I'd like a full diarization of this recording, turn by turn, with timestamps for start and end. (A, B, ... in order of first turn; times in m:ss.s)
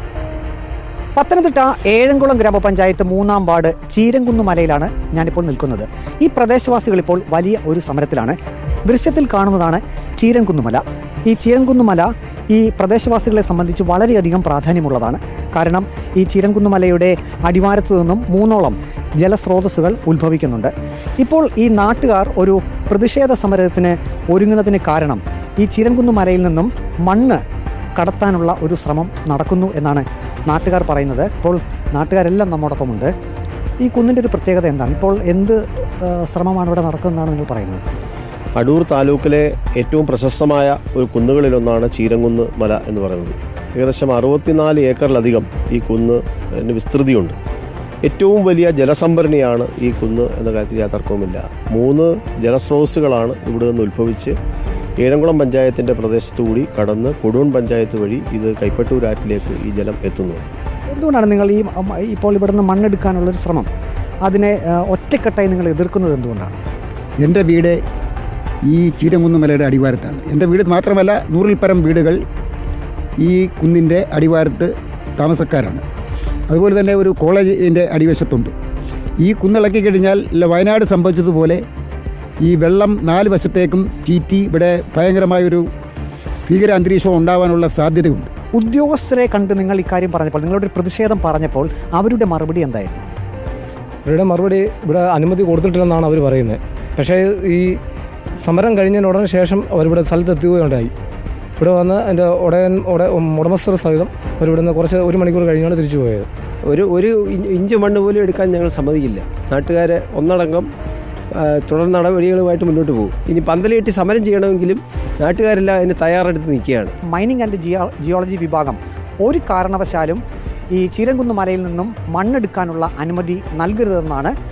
0:01.2-0:27.4 A
0:28.0-0:33.1 A
0:33.8-0:37.8 A
0:38.6-0:47.4 B
0:48.0-0:54.4 B
0:55.0-1:00.4 B
1:00.9-1:03.7 A
1:04.2-1:06.5 A
1:07.2-1:07.8 C
1:08.6-1:12.2 C
1:13.2-1:15.8 C
1:16.5-1:18.5 C
1:19.2-1:21.6 C
1:22.4-1:25.7 C
1:26.5-1:28.3 C
1:28.5-1:33.0 A
1:34.0-1:37.8 D
1:38.4-1:40.9 D
1:41.6-1:46.3 D
1:46.6-1:50.7 E
1:51.3-1:56.9 E
1:57.0-2:00.2 A
2:00.7-2:04.3 A